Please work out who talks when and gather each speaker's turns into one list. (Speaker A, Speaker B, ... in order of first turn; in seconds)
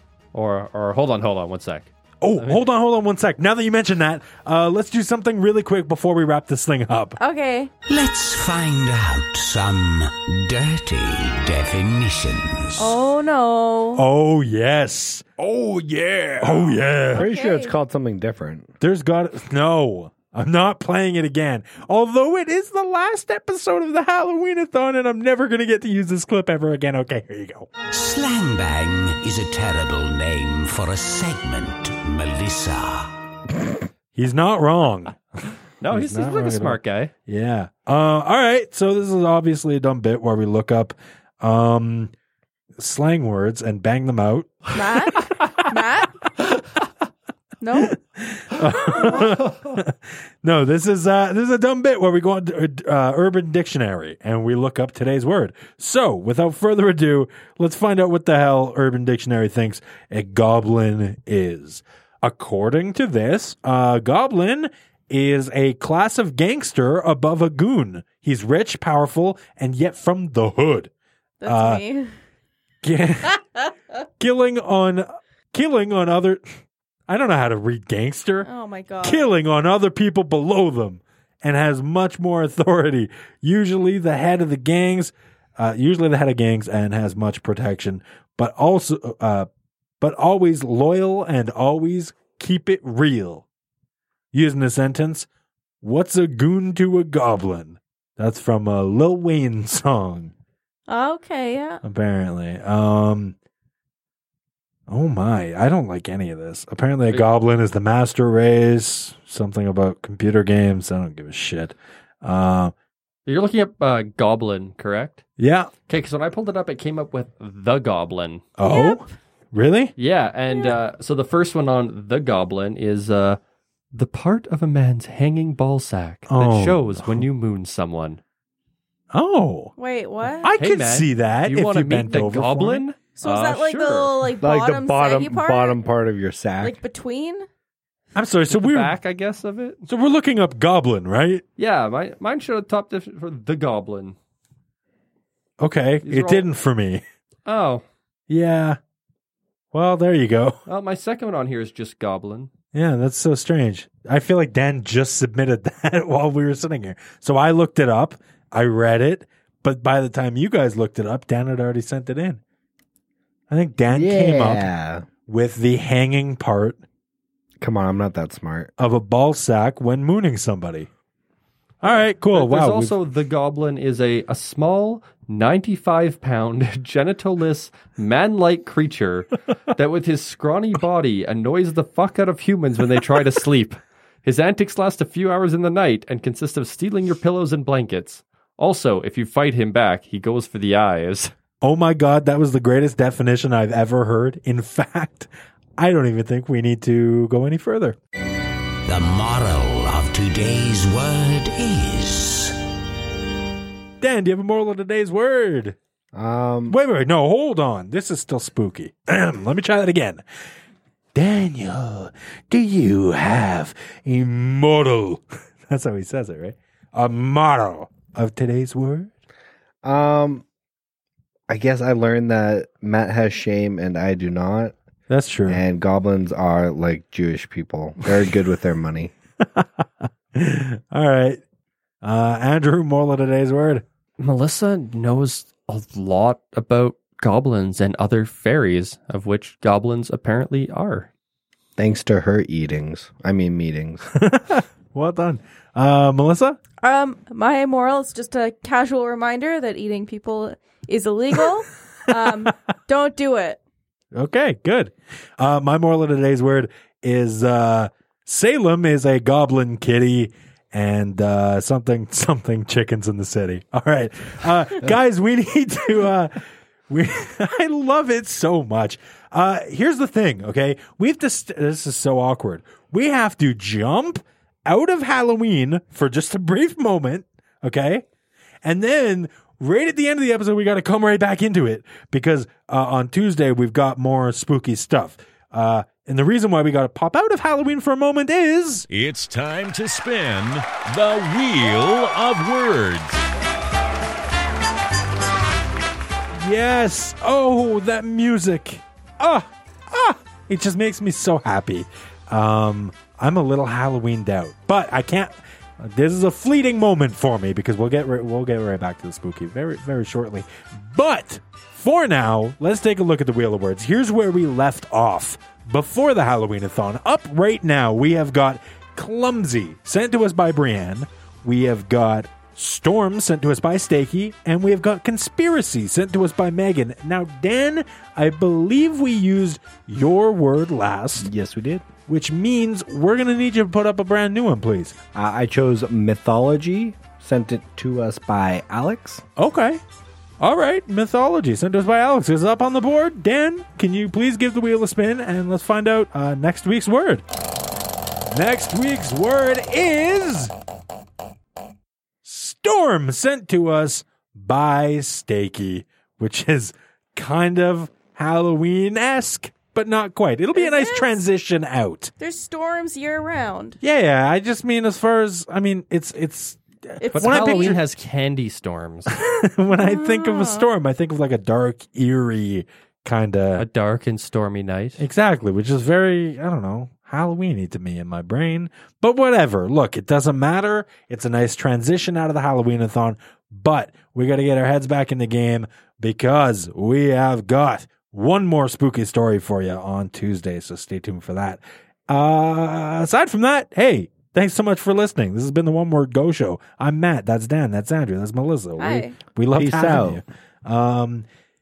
Speaker A: 0.3-2.6, 35.8-37.1, 113.2-115.2, 115.9-118.5, 120.0-123.4, 123.9-128.2, 130.5-134.3, 138.5-139.8, 141.6-144.2, 146.0-146.4, 147.4-147.8, 150.7-152.5, 172.3-191.3, 234.2-241.1, 367.1-369.1, 373.6-375.0
Speaker B: 2.2-7.2, 13.9-15.4, 16.4-17.2, 18.8-27.7, 34.1-42.1, 42.8-45.4, 47.8-70.9, 71.4-71.8, 72.8-73.4, 74.2-76.4, 77.1-78.5, 79.0-89.5, 90.0-93.4, 94.3-95.3, 95.8-100.3, 101.8-103.3, 104.9-112.7, 115.4-115.7, 118.6-119.9, 126.3-127.2, 129.1-129.7, 130.4-132.8, 138.1-138.9, 139.9-141.4, 145.6-147.0, 148.3-148.8, 149.7-150.6, 152.7-162.4, 163.5-164.7, 165.2-166.8, 168.8-170.9, 171.8-172.9, 191.6-198.0, 204.0-205.8, 206.7-210.2, 211.1-219.1, 225.1-225.6, 229.5-231.4, 232.0-233.8, 244.1-246.6, 254.1-278.0, 278.6-288.9, 296.4-331.3, 332.1-335.0, 339.4-339.8, 340.4-347.2, 348.3-350.5, 352.2-362.1, 363.8-367.8, 369.1-373.6, 375.0-401.2
Speaker C: 7.2-7.7, 12.8-14.0, 17.1-17.7, 44.7-46.2, 47.6-48.0, 48.8-49.3, 71.4-72.1, 78.4-79.3, 100.9-101.8, 118.6-119.1, 120.5-120.8, 129.8-130.5, 133.1-135.8, 136.6-137.5, 246.8-253.6, 360.5-361.2, 362.2-363.8, 367.0-367.8, 369.7-370.7, 398.8-399.2
Speaker D: 7.9-12.9, 27.9-33.1, 198.8-202.6
Speaker E: 15.4-16.8, 288.9-293.2
Speaker F: 17.1-18.7, 134.4-136.8, 163.9-165.1, 167.6-168.7, 206.1-206.7, 219.8-220.4, 221.5-224.7, 225.5-229.1, 241.8-244.1, 331.2-331.9, 335.1-339.2, 399.5-400.2